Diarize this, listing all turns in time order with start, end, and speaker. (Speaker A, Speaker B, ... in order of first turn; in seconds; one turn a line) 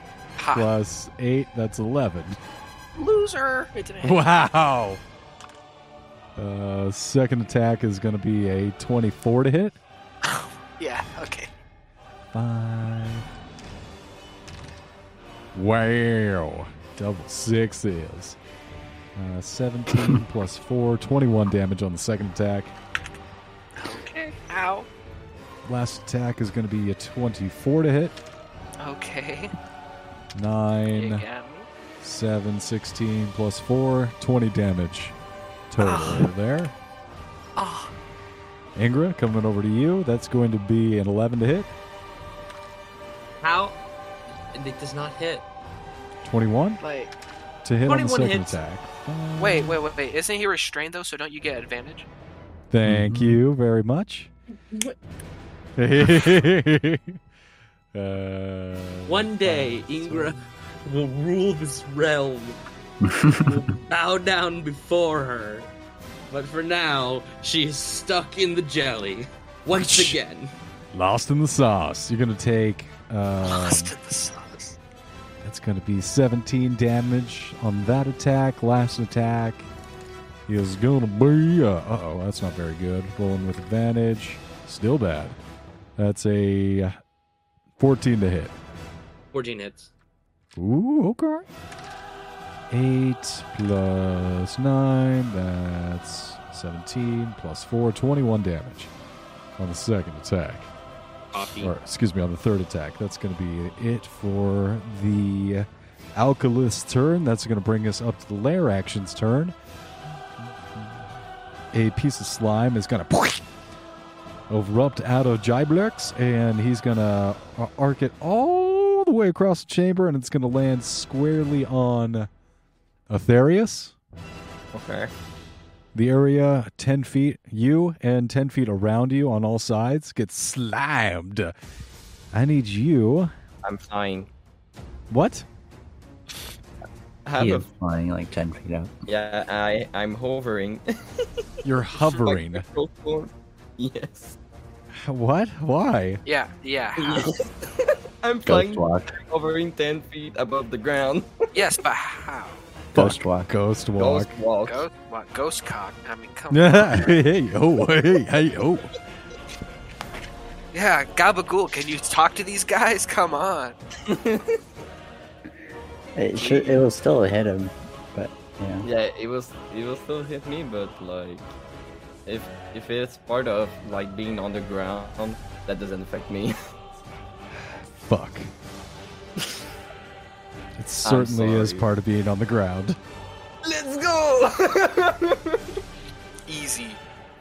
Speaker A: 0.4-0.7
Speaker B: 0.5-2.4
Speaker A: 3.0-4.3
Speaker B: 4.0-5.0
Speaker B: 6.3-9.8
Speaker A: 10.2-11.5
Speaker B: 12.3-13.3
Speaker B: 15.5-18.4
Speaker B: 19.1-22.7
Speaker A: 23.8-24.9
Speaker B: 25.6-28.2
Speaker A: 28.8-29.5
Speaker B: 30.3-31.2
Speaker A: 30.9-31.7
Speaker B: 32.0-35.1
Speaker B: 35.7-36.7
Speaker A: 35.8-36.3
Speaker A: 37.5-37.9
Speaker B: 38.8-41.7
Speaker C: 43.4-43.8
Speaker C: 44.5-45.4
Speaker B: 46.2-46.8
Speaker A: 46.8-47.1
Speaker B: 47.6-49.8
Speaker C: 47.9-48.6
Speaker A: 49.4-52.1
Speaker B: 52.7-54.3
Speaker D: 52.9-53.4
Speaker B: 55.8-57.2
Speaker B: 57.9-59.3
Speaker C: 59.1-62.6
Speaker D: 63.0-63.6
Speaker C: 63.4-65.7
Speaker C: 66.3-70.5
Speaker B: 69.7-70.2
Speaker B: 70.9-73.9
Speaker A: 73.4-74.8
Speaker B: 75.4-79.7
Speaker B: 80.5-85.4
Speaker B: 86.0-87.0
Speaker B: 87.8-88.5
Speaker C: 89.3-89.9
Speaker B: 90.5-91.5
Speaker B: 92.7-98.9
Speaker B: 99.6-100.7
Speaker C: 101.3-101.7
Speaker B: 101.6-109.5
Speaker B: 110.4-110.9
Speaker B: 111.7-113.4
Speaker B: 114.5-122.3
Speaker B: 123.1-123.9
Speaker E: 124.7-125.1
Speaker B: 125.9-131.5
Speaker B: 132.3-133.3
Speaker E: 133.6-134.3
Speaker B: 135.1-135.4
Speaker E: 137.2-137.7
Speaker D: 137.4-138.9
Speaker E: 139.1-141.4
Speaker B: 141.6-142.6
Speaker E: 142.0-144.3
Speaker B: 144.9-146.2
Speaker A: 146.2-147.4
Speaker E: 147.0-151.5
Speaker D: 148.4-149.2
Speaker A: 151.5-152.6
Speaker D: 152.9-153.5
Speaker B: 152.9-154.3
Speaker E: 154.0-154.9
Speaker A: 154.6-157.2
Speaker B: 156.5-158.9
Speaker A: 160.7-163.8
Speaker E: 164.1-164.6
Speaker D: 166.2-168.8
Speaker E: 168.8-171.5
Speaker E: 172.2-176.5
Speaker B: 177.9-178.5
Speaker B: 180.8-183.0
Speaker E: 181.0-181.9
Speaker E: 183.6-185.7
Speaker A: 186.4-187.0